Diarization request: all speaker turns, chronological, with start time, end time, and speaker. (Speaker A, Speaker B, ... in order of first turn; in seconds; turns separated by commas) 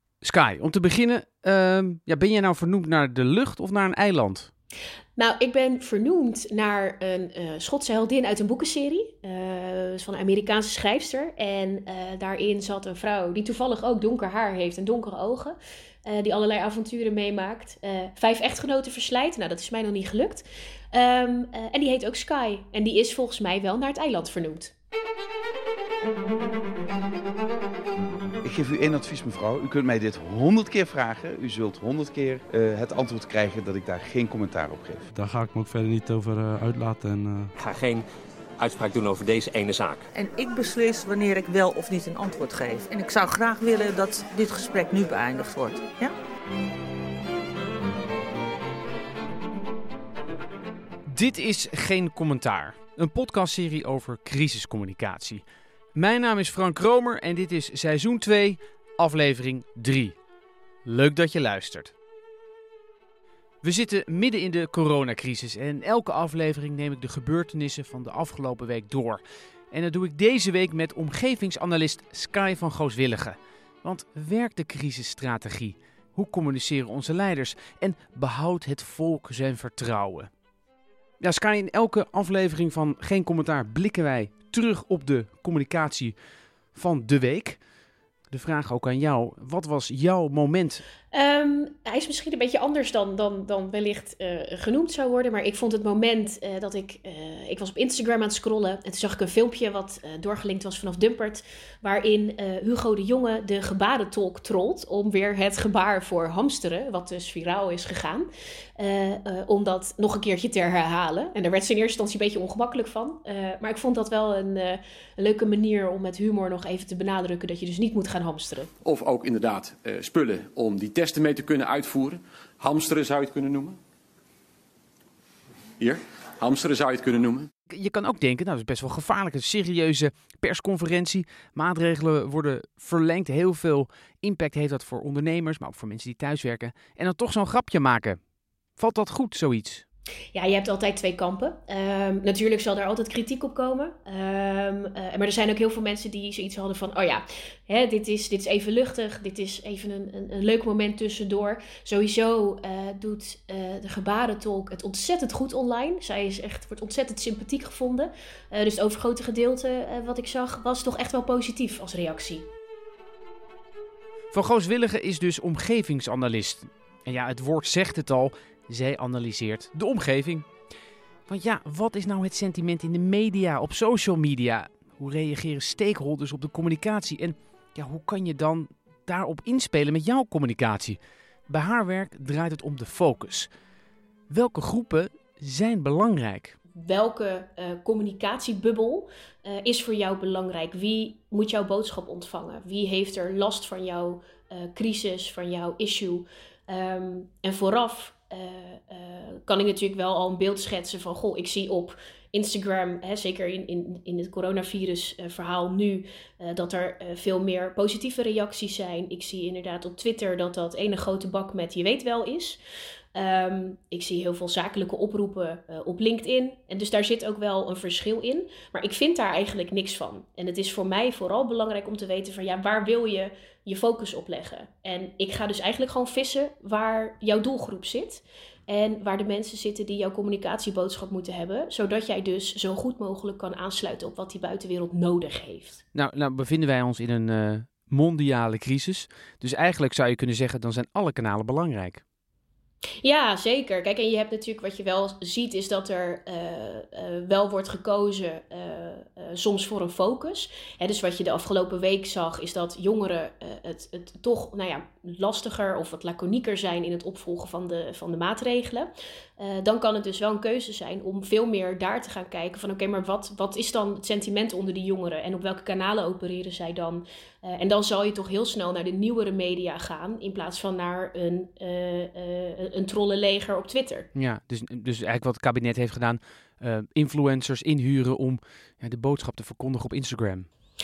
Speaker A: 0.2-4.5, Speaker B: 5.2-24.7, Speaker C: 28.4-35.1, Speaker D: 35.2-37.5, Speaker E: 37.6-38.0, Speaker E: 38.6-40.1, Speaker F: 40.1-46.1, Speaker A: 51.1-55.4, Speaker A: 56.0-60.1, Speaker A: 60.9-61.9, Speaker A: 63.6-80.3, Speaker A: 81.2-86.2, Speaker A: 86.7-87.6, Speaker A: 88.3-90.8, Speaker B: 91.1-118.7, Speaker G: 118.8-123.8, Speaker G: 125.8-127.5, Speaker A: 127.7-138.2, Speaker A: 138.8-139.8, Speaker B: 140.3-162.5, Speaker A: 164.3-170.5, Speaker A: 171.3-181.0, Speaker A: 181.5-183.5, Speaker A: 184.3-186.6, Speaker B: 186.8-212.6, Speaker B: 213.1-235.8, Speaker A: 235.9-242.0, Speaker B: 243.0-274.1, Speaker A: 274.1-280.5